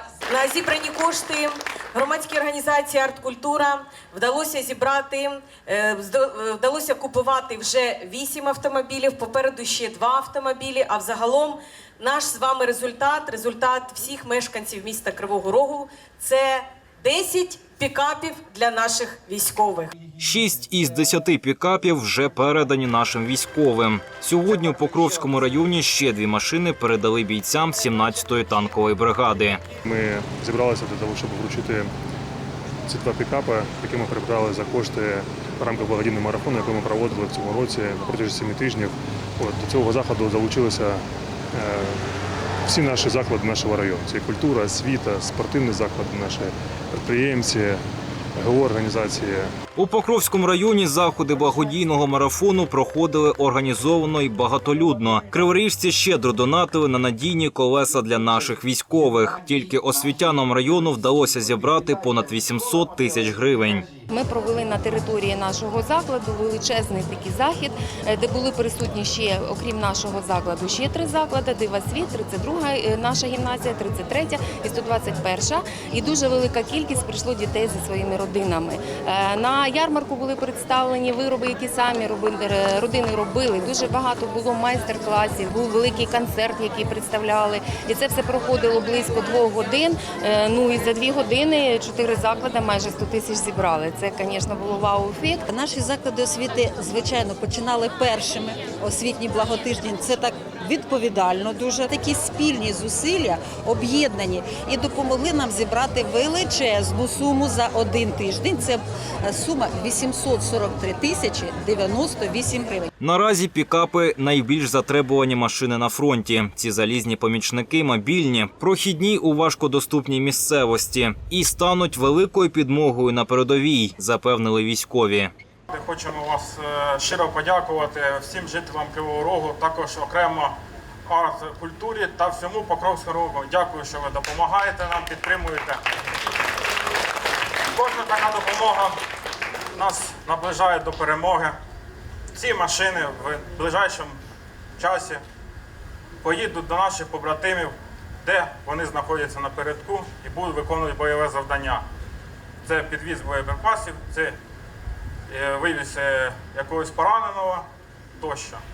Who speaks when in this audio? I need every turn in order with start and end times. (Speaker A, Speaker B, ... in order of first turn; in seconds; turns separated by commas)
Speaker A: 0.3-19.9, Speaker B: 20.2-29.6, Speaker C: 29.9-31.9, Speaker C: 32.9-42.0, Speaker C: 42.7-47.8, Speaker C: 48.4-49.5, Speaker B: 49.8-63.9, Speaker D: 64.1-95.5, Speaker E: 95.5-112.9, Speaker B: 113.0-125.3, Speaker F: 125.7-135.8, Speaker F: 137.7-139.0, Speaker F: 139.8-141.6, Speaker F: 142.3-144.2, Speaker F: 144.8-145.2, Speaker F: 146.2-151.9, Speaker F: 152.6-154.4, Speaker F: 155.3-157.7, Speaker F: 158.2-158.6